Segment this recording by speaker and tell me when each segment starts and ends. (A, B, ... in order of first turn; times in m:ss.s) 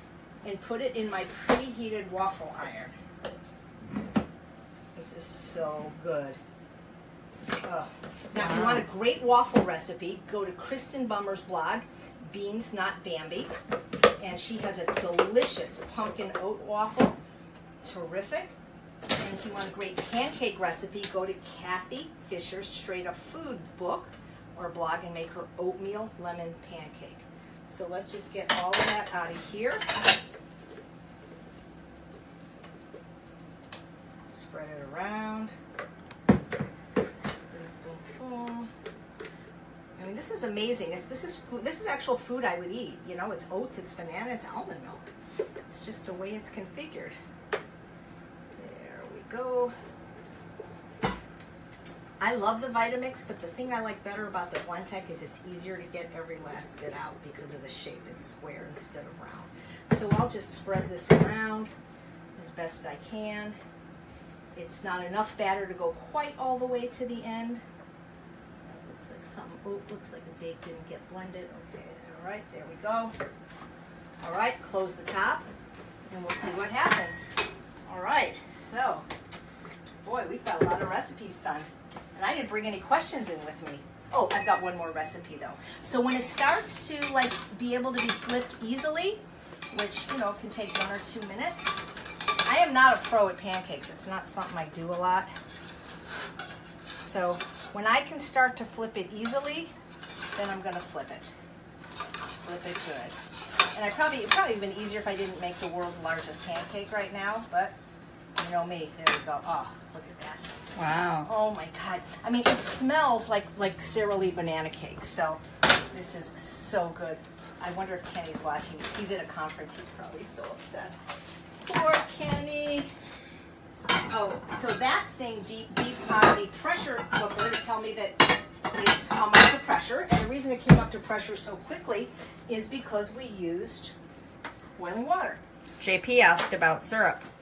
0:00.4-0:02.9 A
0:05.0-0:06.4 A
0:07.6-0:13.5 A
0:08.4-0:08.8 B
0:14.2-0:17.2 A
0:17.8-0:18.5 A
0:19.2-0:29.8 A
0:34.3-0:35.5 A
0:37.5-0:38.7 A
0:40.0-0:45.0 A
0:45.7-0:47.2 A
0:48.6-0:49.7 A
0:52.2-1:01.7 A
1:02.4-1:03.6 A
1:04.6-1:07.6 A
1:08.6-1:13.1 A
1:14.2-1:15.4 A
1:16.1-1:17.3 A
1:17.9-1:19.0 A
1:20.0-1:29.2 A
1:29.7-1:31.7 A
1:32.4-1:35.3 A
1:37.0-1:39.7 A
1:40.4-1:41.3 A
1:42.4-1:43.2 A
1:43.7-1:47.7 A
1:48.4-1:50.5 A
1:50.8-1:51.3 B
1:51.2-1:55.4 A
1:55.9-2:01.0 A
2:01.6-2:02.9 A
2:04.1-2:13.9 A
2:14.8-2:15.4 A
2:15.8-2:17.2 B